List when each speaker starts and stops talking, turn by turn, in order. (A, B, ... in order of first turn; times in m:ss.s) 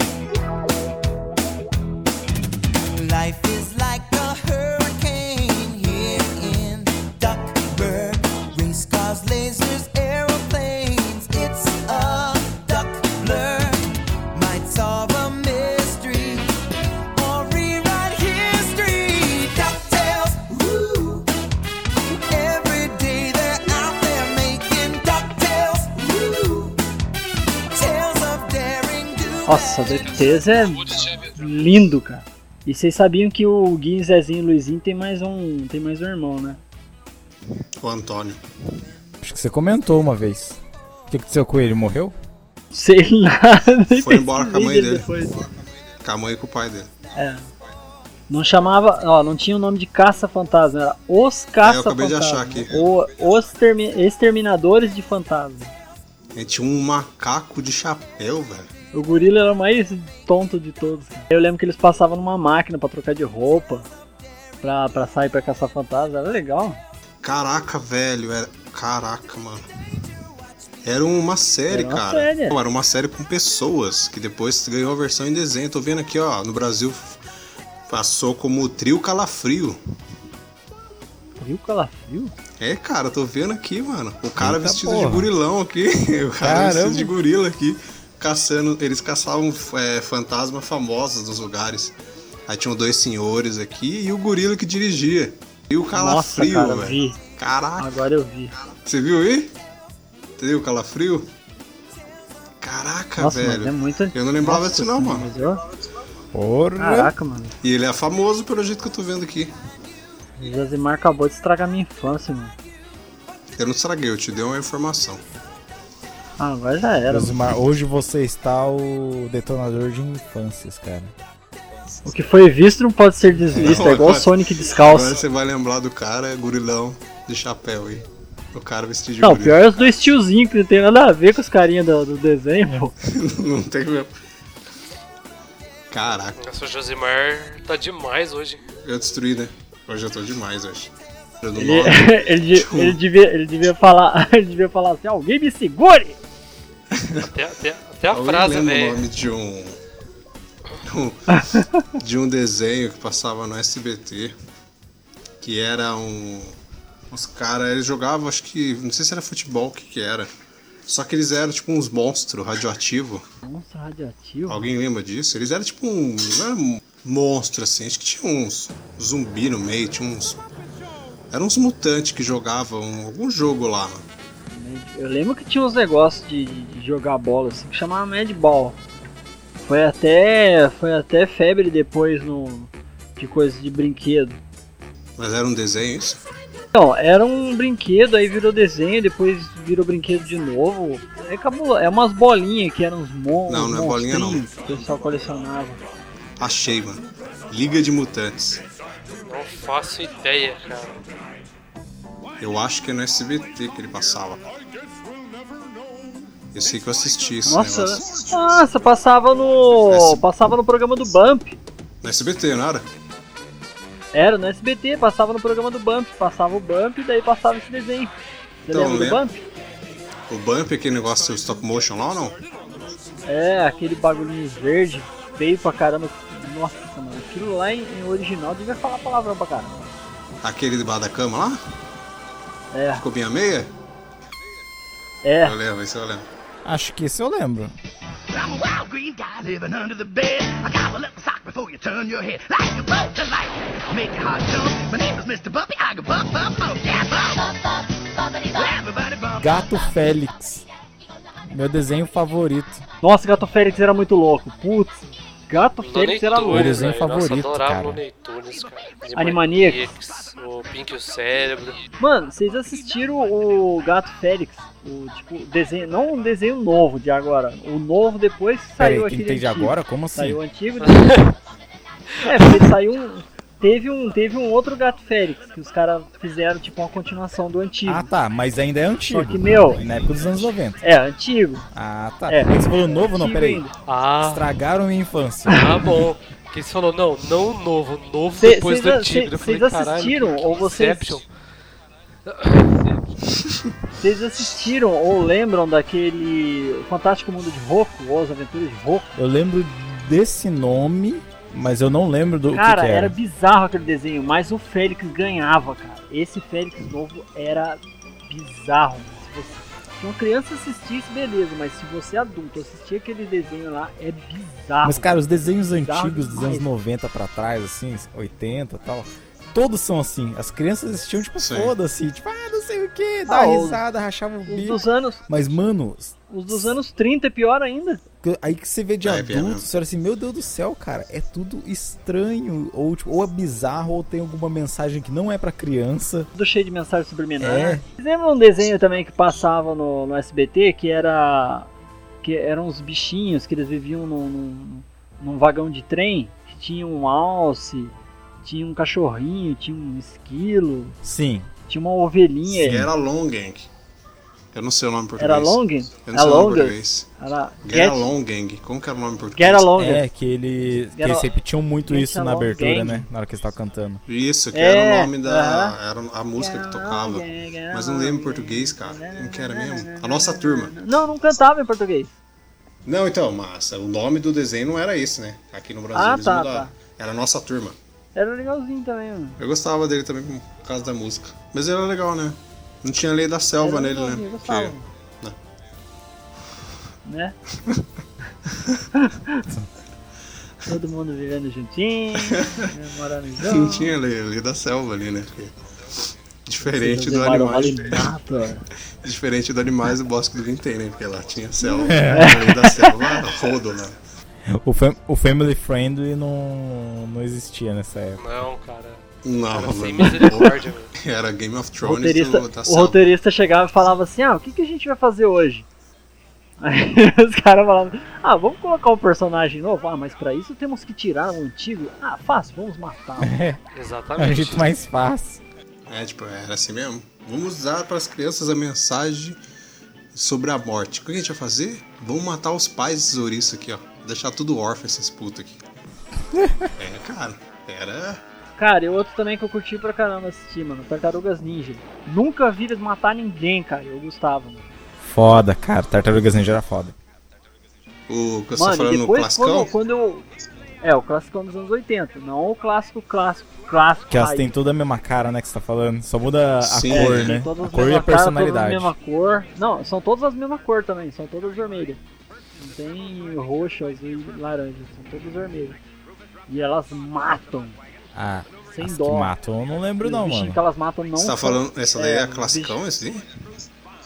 0:02.9-0:16.5 A
0:17.1-0:21.3 A
0:22.1-0:26.8 A
0:27.7-0:30.3 A
0:29.4-0:36.6 B
0:37.8-0:38.4 C
0:39.2-0:42.2 D
0:42.7-0:45.4 B
0:43.9-0:45.1 C
0:46.0-0:46.9 C
0:47.1-0:47.4 B
0:48.3-0:55.7 B
0:51.6-0:52.8 C
0:56.3-0:58.7 C
0:58.9-1:03.9 B
1:04.6-1:06.8 B
1:07.2-1:09.7 C
1:10.8-1:17.2 C
1:11.7-1:12.6 B
1:17.9-1:19.8 C
1:21.4-1:22.3 B
1:22.6-1:38.0 C
1:24.4-1:25.3 D
1:26.4-1:27.1 D
1:35.9-1:37.2 B
1:37.8-1:38.5 B
1:38.8-1:39.5 C
1:40.4-1:41.3 C
1:42.6-1:45.3 C
1:43.2-1:45.6 B
1:46.3-1:47.1 D
1:46.8-1:47.5 B
1:47.6-1:49.5 C
1:50.4-1:52.5 B
1:53.6-1:55.2 C
1:56.4-1:57.4 B
1:57.1-2:01.1 D
2:02.0-2:05.2 B
2:03.5-2:09.7 C
2:09.2-2:12.9 B
2:13.0-2:14.1 C
2:15.9-2:16.4 C
2:16.4-2:18.6 E
2:18.8-2:23.0 C
2:21.6-2:26.2 B
2:26.9-2:27.3 C
2:27.2-2:29.0 E
2:28.1-2:29.8 C
2:30.8-2:34.3 C
2:31.3-2:31.6 B
2:35.4-2:36.5 C
2:37.1-2:40.3 C
2:40.9-2:43.2 C
2:43.4-2:44.6 B
2:44.5-2:50.4 C
2:51.3-2:54.0 C
2:54.5-2:58.8 B
2:59.6-3:04.4 B
3:05.2-3:06.2 C
3:06.7-3:15.8 B
3:13.5-3:14.4 C
3:16.4-3:18.6 C
3:19.2-3:21.0 E
3:22.4-3:24.5 C
3:26.5-3:28.3 C
3:27.4-3:31.6 B
3:29.9-3:30.2 C
3:32.0-3:32.9 C
3:34.1-3:38.1 B
3:38.6-3:39.4 B
3:38.7-3:39.2 C
3:40.3-3:42.4 C
3:43.2-3:49.9 B
3:50.4-3:51.6 C
3:52.7-3:53.0 B
3:53.0-3:53.7 C
3:55.2-3:55.6 B
3:55.4-3:56.3 C
3:56.6-3:57.7 D
3:58.3-4:09.6 F
4:09.4-4:10.6 D
4:11.5-4:12.8 D
4:13.0-4:16.8 B
4:15.8-4:21.8 E
4:16.4-4:18.0 D
4:19.1-4:19.9 B
4:22.0-4:31.2 B
4:28.8-4:30.4 D
4:30.8-4:31.3 E
4:32.2-4:38.1 B
4:37.8-4:40.8 D
4:39.1-4:39.8 B
4:40.8-4:41.6 B
4:41.7-4:43.6 D
4:42.3-4:43.7 B
4:43.8-4:44.5 E
4:44.2-4:45.8 D
4:45.5-4:51.3 E
4:48.4-4:51.2 B
4:52.2-4:53.0 E
4:54.0-4:59.1 B
4:59.1-5:03.2 D
5:02.5-5:16.6 B
5:14.8-5:26.7 D
5:21.4-5:21.7 C
5:23.3-5:23.8 B
5:24.5-5:25.2 B
5:26.3-5:28.0 B
5:28.2-5:36.3 D
5:29.0-5:29.6 C
5:36.3-5:41.7 B
5:37.4-5:37.8 D
5:42.2-5:51.0 B
5:51.0-5:51.5 D
5:51.7-5:52.9 B
5:52.5-5:53.7 C
5:54.5-5:57.1 C
5:55.2-5:58.1 B
5:57.6-5:59.7 C
5:59.3-6:00.0 B
5:59.8-6:04.0 D
6:01.0-6:01.3 B
6:01.8-6:03.1 B
6:04.1-6:10.7 C
6:04.5-6:05.8 B
6:06.4-6:12.2 B
6:12.8-6:17.8 C
6:15.9-6:16.7 B
6:18.1-6:19.4 B
6:19.4-6:25.4 C
6:23.6-6:24.8 B
6:27.0-6:27.4 B
6:28.9-6:29.4 B
6:30.6-6:33.9 B
6:32.2-6:32.6 C
6:33.4-6:35.5 C
6:36.4-6:38.1 C
6:36.7-6:38.6 B
6:39.0-6:44.0 C
6:41.6-6:42.9 B
6:41.8-6:42.3 D
6:44.5-6:48.2 D
6:48.2-6:50.9 E
6:49.2-6:53.0 C
6:51.8-6:55.7 B
6:56.6-7:03.4 B
7:03.2-7:03.6 D
7:03.7-7:04.7 E
7:04.2-7:05.4 D
7:05.9-7:09.4 C
7:10.1-7:15.6 C
7:16.3-7:16.7 D
7:16.8-7:18.2 C
7:18.6-7:24.6 B
7:25.0-7:26.9 D
7:28.1-7:29.7 C
7:28.5-7:30.2 B
7:30.8-7:34.5 B
7:34.1-7:38.9 D
7:36.6-7:37.3 C
7:36.9-7:42.0 B
7:42.6-7:45.8 B
7:46.5-7:47.8 B
7:48.1-7:50.6 D
7:48.7-7:49.3 B
7:50.0-7:52.8 B
7:51.1-7:53.2 C